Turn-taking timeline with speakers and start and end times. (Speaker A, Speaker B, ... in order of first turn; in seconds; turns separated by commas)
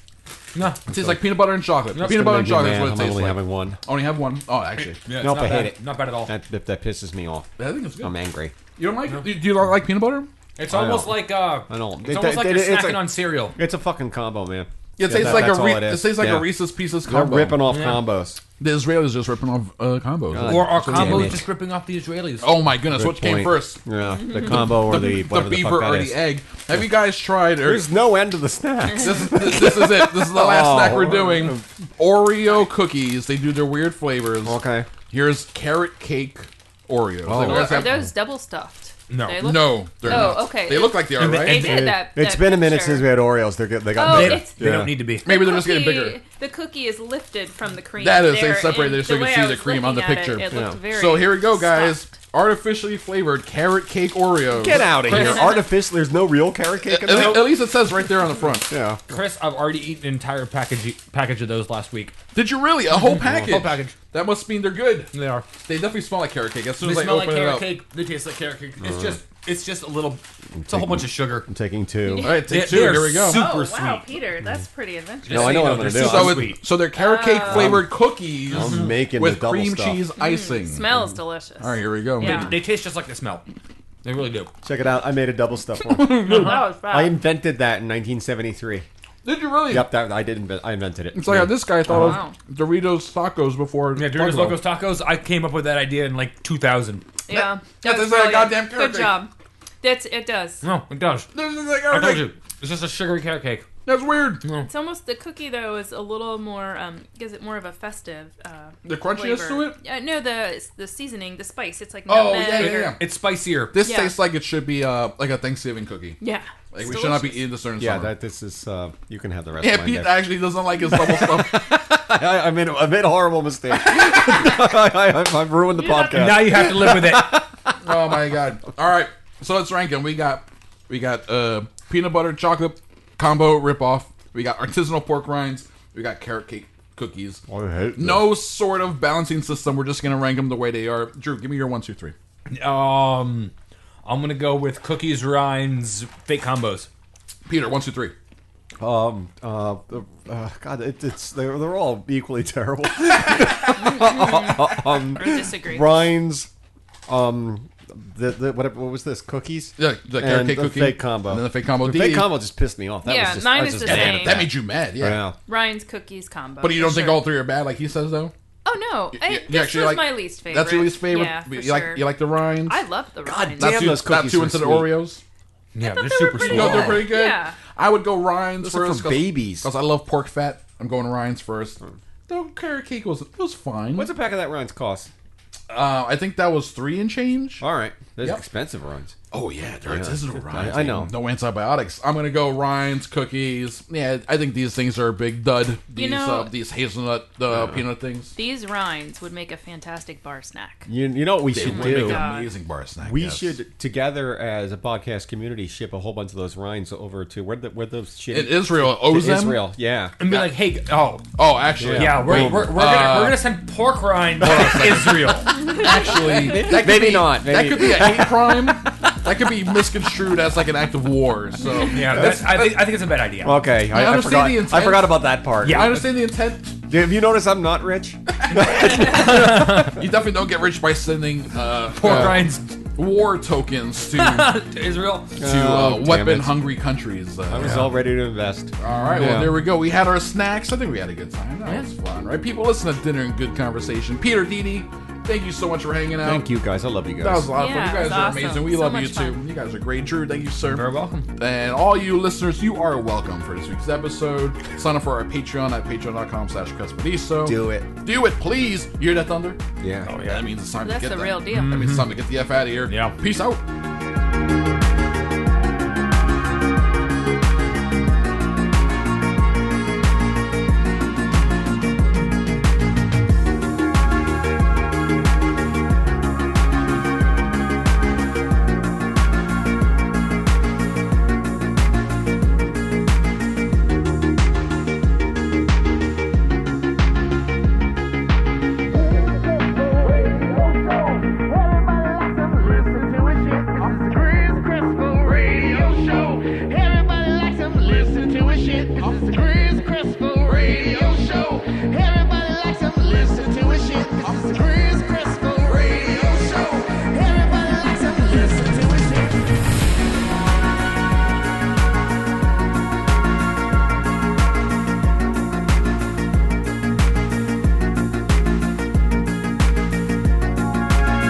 Speaker A: 0.5-0.8, Speaker B: 0.9-1.2, Speaker C: 0.9-5.0, Speaker B: 2.0-3.8, Speaker A: 4.8-6.3, Speaker B: 5.2-8.6, Speaker C: 7.6-8.1, Speaker C: 8.8-10.3, Speaker A: 10.6-13.6, Speaker B: 10.7-18.4, Speaker C: 15.0-17.8, Speaker A: 17.7-18.0, Speaker C: 18.6-21.4, Speaker B: 20.3-21.5, Speaker A: 20.5-22.5, Speaker C: 22.4-23.8, Speaker B: 22.9-26.2, Speaker D: 24.2-24.7, Speaker C: 24.4-27.9, Speaker B: 27.6-31.7, Speaker C: 29.0-38.0, Speaker B: 34.4-34.9, Speaker B: 37.2-38.1, Speaker D: 37.4-43.2, Speaker A: 39.1-39.5, Speaker C: 39.4-41.8, Speaker B: 40.1-40.4, Speaker A: 41.2-42.0, Speaker B: 41.4-45.0, Speaker D: 44.0-44.6, Speaker A: 44.0-45.3, Speaker D: 45.2-52.0, Speaker C: 45.2-46.2, Speaker C: 48.0-55.5, Speaker B: 50.5-50.8, Speaker B: 54.5-57.6, Speaker A: 55.0-55.4, Speaker D: 55.1-55.6, Speaker C: 56.9-58.7, Speaker A: 57.1-57.5, Speaker B: 58.7-59.0, Speaker A: 59.1-62.1, Speaker C: 62.3-65.1, Speaker B: 63.0-63.6, Speaker A: 63.3-64.0, Speaker A: 65.1-65.5, Speaker C: 65.6-67.8, Speaker A: 66.8-71.5, Speaker B: 68.8-69.2, Speaker B: 70.5-72.4, Speaker D: 72.0-72.4, Speaker C: 72.2-73.5, Speaker A: 72.5-74.1, Speaker D: 73.3-75.6, Speaker A: 75.2-76.6, Speaker B: 75.3-76.6, Speaker C: 75.6-81.0, Speaker D: 77.0-77.8, Speaker B: 77.5-77.9, Speaker B: 78.5-80.0, Speaker A: 78.6-78.9, Speaker D: 80.2-82.5, Speaker C: 81.6-82.5, Speaker A: 82.2-83.5, Speaker A: 84.0-84.5, Speaker B: 84.6-88.9, Speaker D: 86.1-87.2, Speaker A: 86.2-86.7, Speaker C: 89.2-89.9, Speaker B: 89.7-92.1, Speaker C: 91.1-94.6, Speaker D: 91.9-92.3, Speaker A: 94.0-97.0, Speaker D: 97.3-99.3, Speaker C: 97.3-99.2, Speaker D: 99.8-100.6, Speaker A: 100.6-101.3, Speaker C: 101.3-102.3, Speaker A: 101.9-103.7, Speaker C: 103.8-104.5, Speaker A: 104.4-104.7, Speaker D: 104.7-113.0, Speaker C: 108.9-109.8, Speaker C: 112.1-113.1, Speaker A: 112.5-113.8, Speaker C: 113.7-116.2, Speaker D: 113.8-114.1, Speaker D: 116.2-117.5, Speaker C: 116.7-118.1, Speaker B: 117.8-128.3, Speaker C: 119.6-121.8, Speaker D: 125.8-126.5, Speaker A: 126.1-127.5, Speaker C: 127.8-137.4, Speaker B: 137.5-138.4, Speaker C: 137.9-142.2, Speaker A: 142.5-143.5, Speaker A: 144.1-146.9, Speaker C: 147.5-148.2, Speaker B: 148.8-156.5, Speaker D: 153.8-156.1, Speaker B: 157.1-165.4, Speaker C: 159.8-162.4, Speaker D: 163.1-164.5, Speaker C: 163.8-165.3, Speaker D: 165.5-167.3, Speaker C: 166.6-168.3, Speaker D: 168.7-173.7, Speaker C: 169.2-172.8, Speaker B: 173.2-175.1, Speaker C: 173.6-175.2, Speaker A: 175.7-177.1, Speaker D: 175.8-177.6, Speaker C: 176.4-184.1, Speaker B: 178.6-179.7, Speaker B: 183.9-185.1, Speaker C: 185.7-187.7, Speaker B: 187.6-189.2, Speaker C: 189.3-198.3, Speaker B: 189.8-191.1, Speaker D: 195.9-196.5, Speaker B: 197.5-197.9, Speaker D: 198.4-200.9, Speaker B: 200.9-202.2, Speaker C: 201.5-203.6, Speaker D: 201.6-202.5, Speaker B: 203.0-210.2, Speaker C: 208.3-209.6, Speaker A: 210.2-211.3, Speaker C: 210.2-210.5, Speaker C: 211.4-213.5, Speaker B: 211.8-212.8, Speaker A: 211.8-215.6, Speaker C: 214.4-222.7, Speaker B: 216.4-219.8, Speaker A: 221.9-223.7, Speaker B: 222.1-222.6, Speaker B: 223.4-226.0, Speaker C: 223.9-226.8, Speaker A: 225.6-226.1, Speaker B: 226.9-229.7, Speaker C: 228.5-234.5, Speaker A: 228.6-230.0, Speaker A: 232.0-232.8, Speaker B: 232.0-232.4, Speaker A: 234.2-235.4, Speaker B: 235.4-236.7, Speaker C: 235.4-238.0, Speaker B: 237.5-239.6, Speaker C: 238.8-246.5, Speaker A: 239.0-239.4, Speaker B: 246.2-247.5, Speaker C: 247.2-259.6, Speaker D: 247.6-249.4, Speaker A: 250.7-251.3, Speaker B: 257.4-257.9, Speaker B: 259.8-260.1, Speaker A: 260.1-260.5, Speaker C: 260.2-263.6, Speaker D: 260.8-261.8, Speaker A: 261.5-262.2, Speaker A: 262.9-263.2, Speaker E: 289.2-309.4